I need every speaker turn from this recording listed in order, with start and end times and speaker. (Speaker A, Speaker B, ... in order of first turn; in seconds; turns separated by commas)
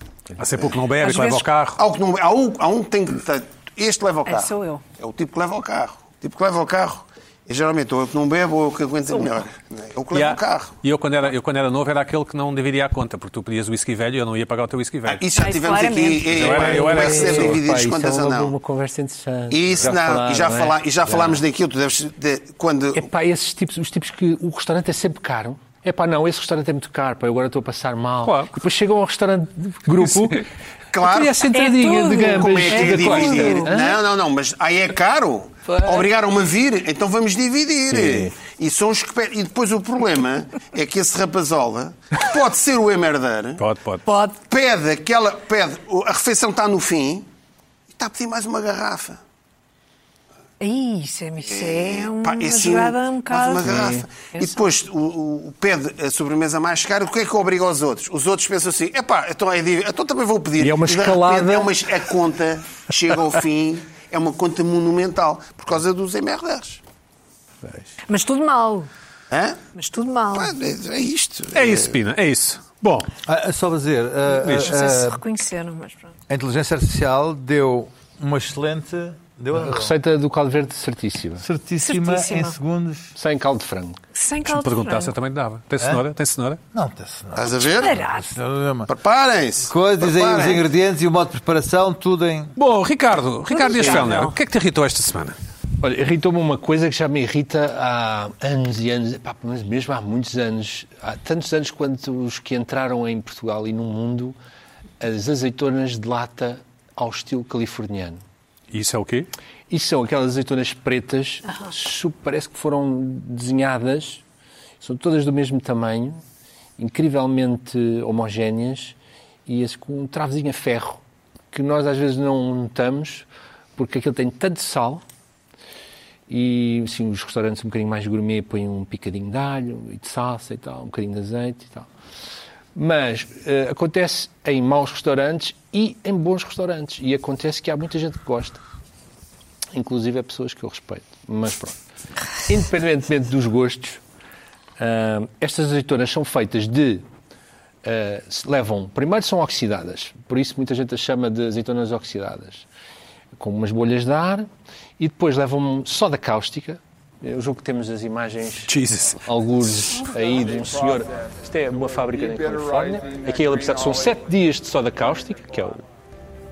Speaker A: 0.4-1.8, Speaker B: 1.0-1.4, Speaker C: 1.8-10.7, Speaker B: 4.2-4.8, Speaker A: 10.1-15.2, Speaker C: 15.1-18.5, Speaker B: 15.3-16.5, Speaker A: 16.3-17.6, Speaker D: 16.5-21.4, Speaker C: 19.5-23.1, Speaker D: 22.9-34.0, Speaker A: 28.2-28.5, Speaker A: 30.0-30.4, Speaker C: 30.9-31.5, Speaker B: 31.5-33.8, Speaker C: 32.2-43.6, Speaker D: 37.9-38.3, Speaker A: 43.6-44.0, Speaker B: 44.0-44.4, Speaker C: 44.4-47.3, Speaker C: 47.9-49.2, Speaker B: 50.6-53.7, Speaker C: 51.4-66.8, Speaker D: 53.6-54.1, Speaker B: 54.3-54.6, Speaker D: 60.6-61.8, Speaker B: 68.1-68.9, Speaker C: 69.3-69.6, Speaker B: 69.7-70.5, Speaker C: 70.3-71.9, Speaker A: 71.5-73.1, Speaker E: 73.2-75.2, Speaker B: 74.4-76.1, Speaker E: 76.3-79.9, Speaker D: 79.5-81.4, Speaker E: 81.4-83.1, Speaker B: 81.8-82.5, Speaker D: 83.2-84.0, Speaker B: 84.1-85.1, Speaker A: 84.5-86.6, Speaker E: 86.7-88.9, Speaker C: 87.3-88.0, Speaker B: 87.6-88.3, Speaker C: 88.9-90.7, Speaker E: 89.7-92.5, Speaker A: 92.6-95.3, Speaker B: 93.5-94.3, Speaker D: 95.8-104.4, Speaker D: 105.0-108.2, Speaker A: 108.7-109.3, Speaker D: 109.7-114.2, Speaker D: 114.8-116.2, Speaker D: 116.8-121.0, Speaker D: 121.5-125.0, Speaker D: 126.3-131.9, Speaker D: 132.7-138.6, Speaker D: 139.7-141.8, Speaker D: 142.4-144.0, Speaker D: 144.8-147.1, Speaker D: 147.8-152.7, Speaker D: 153.3-154.5, Speaker D: 155.0-165.8, Speaker A: 158.7-159.2